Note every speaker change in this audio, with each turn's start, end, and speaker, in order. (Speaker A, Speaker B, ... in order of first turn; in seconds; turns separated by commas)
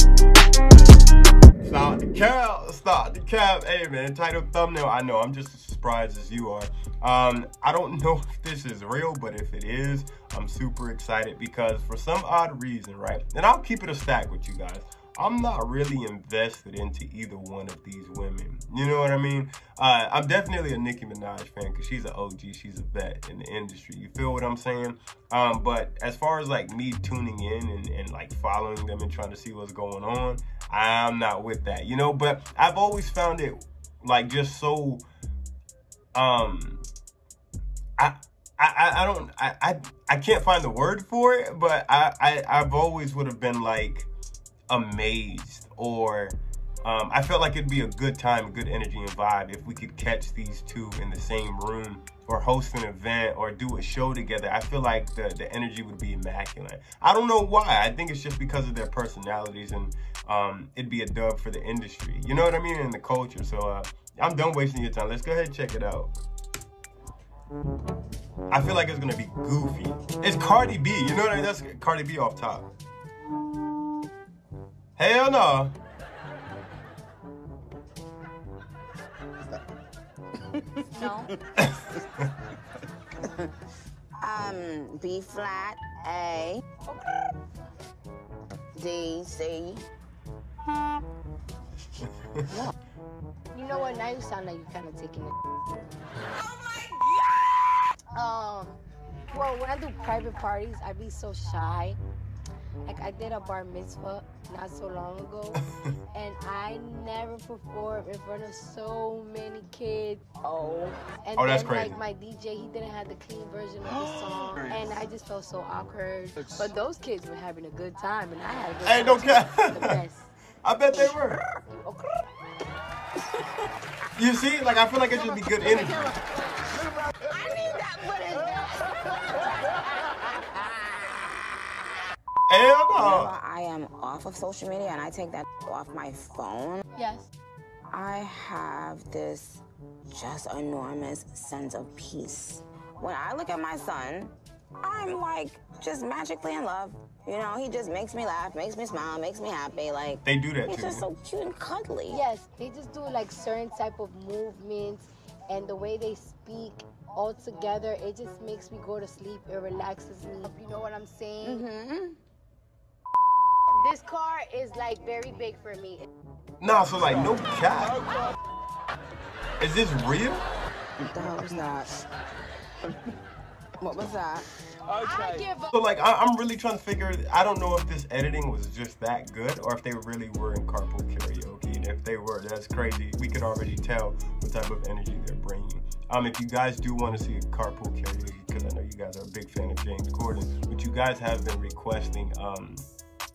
Speaker A: 1.6-35.0, Speaker A: 36.1-36.9, Speaker A: 38.0-44.1, Speaker A: 44.7-66.1, Speaker A: 68.5-72.7, Speaker A: 75.0-75.8, Speaker B: 81.0-81.3, Speaker C: 81.0-81.3, Speaker A: 81.6-82.3, Speaker C: 84.2-86.6, Speaker C: 88.8-89.8, Speaker C: 92.5-92.7, Speaker B: 93.5-95.4, Speaker B: 98.1-98.8, Speaker B: 99.3-102.0, Speaker B: 102.8-110.2, Speaker C: 110.4-111.0, Speaker B: 111.2-120.3, Speaker A: 111.3-112.0, Speaker A: 118.8-120.0, Speaker A: 120.6-121.4, Speaker C: 120.9-121.6, Speaker B: 121.8-122.2, Speaker A: 124.2-126.2, Speaker C: 127.0-131.3, Speaker A: 132.5-133.4, Speaker C: 133.0-136.8, Speaker B: 136.9-137.3, Speaker C: 137.9-152.2, Speaker A: 150.2-151.1, Speaker B: 152.1-161.7, Speaker C: 161.4-162.2, Speaker B: 163.7-166.1, Speaker A: 166.6-168.0, Speaker A: 169.6-170.4, Speaker C: 171.0-172.0, Speaker C: 173.8-174.5, Speaker B: 174.9-175.7, Speaker A: 175.7-192.8